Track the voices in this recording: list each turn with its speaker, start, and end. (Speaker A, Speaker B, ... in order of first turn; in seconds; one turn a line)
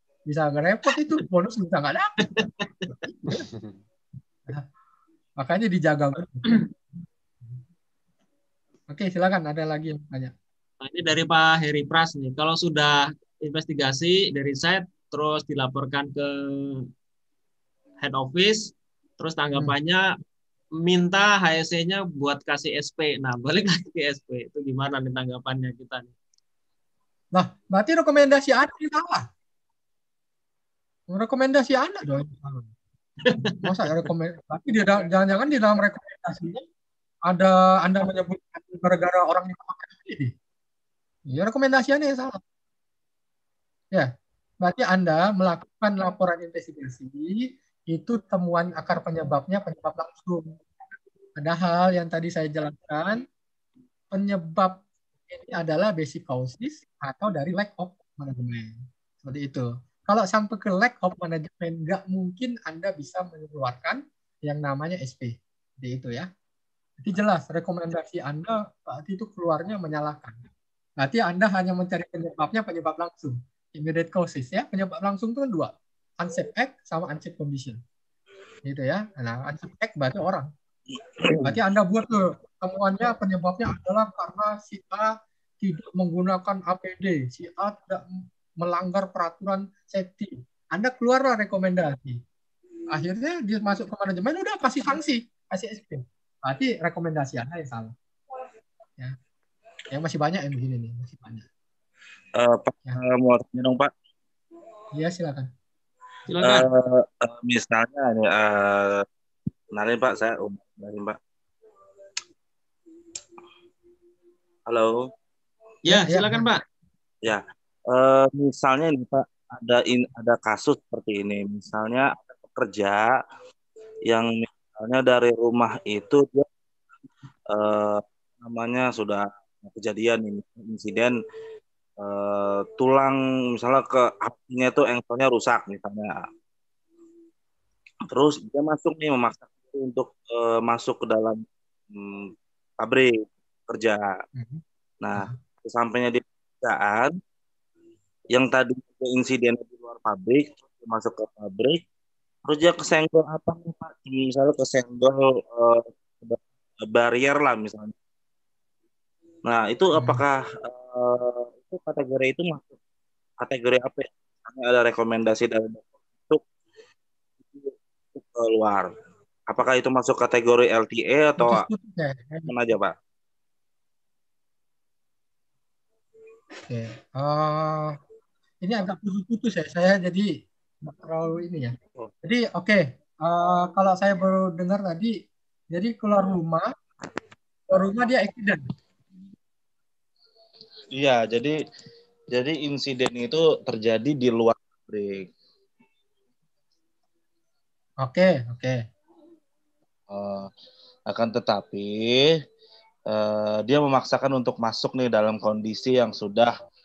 Speaker A: 0.3-2.4
Speaker B: 2.3-2.9
Speaker A: 3.0-3.4
Speaker A: 5.4-6.6
Speaker A: 8.9-10.3
Speaker B: 10.8-16.8
Speaker B: 18.0-20.0
Speaker B: 20.8-26.1
Speaker A: 27.4-29.3
Speaker A: 31.1-32.7
Speaker B: 33.3-34.1
Speaker A: 33.6-36.6
Speaker A: 37.3-40.3
Speaker A: 41.3-42.4
Speaker A: 44.6-50.5
Speaker A: 51.4-53.2
Speaker A: 54.1-66.3
Speaker A: 67.0-70.4
Speaker A: 71.0-77.8
Speaker A: 78.7-80.5
Speaker C: 81.2-81.6
Speaker A: 81.4-92.2
Speaker A: 92.9-97.9
Speaker A: 99.9-101.5
Speaker C: 102.3-103.9
Speaker A: 104.9-105.5
Speaker B: 106.3-106.7
Speaker C: 106.4-109.0
Speaker C: 109.7-111.2
Speaker C: 114.7-115.1
Speaker B: 115.9-116.6
Speaker A: 115.9-116.5
Speaker C: 117.2-123.1
Speaker C: 124.1-126.5
Speaker C: 127.5-131.2
Speaker C: 132.0-136.2
Speaker C: 138.1-144.2
Speaker A: 144.3-144.6
Speaker C: 145.0-147.1
Speaker C: 148.3-151.8
Speaker C: 152.4-157.9
Speaker C: 159.4-162.8
Speaker A: 159.9-160.2
Speaker C: 163.4-166.4
Speaker C: 167.5-168.9
Speaker C: 169.5-171.7
Speaker A: 171.4-172.5
Speaker C: 172.5-172.9
Speaker A: 176.6-178.0
Speaker A: 178.6-180.3
Speaker A: 180.8-185.2
Speaker A: 185.7-186.7
Speaker A: 187.7-188.7
Speaker C: 190.9-191.6
Speaker C: 192.3-195.3
Speaker A: 198.0-198.8
Speaker C: 200.1-200.5
Speaker C: 201.1-202.3
Speaker C: 203.1-206.5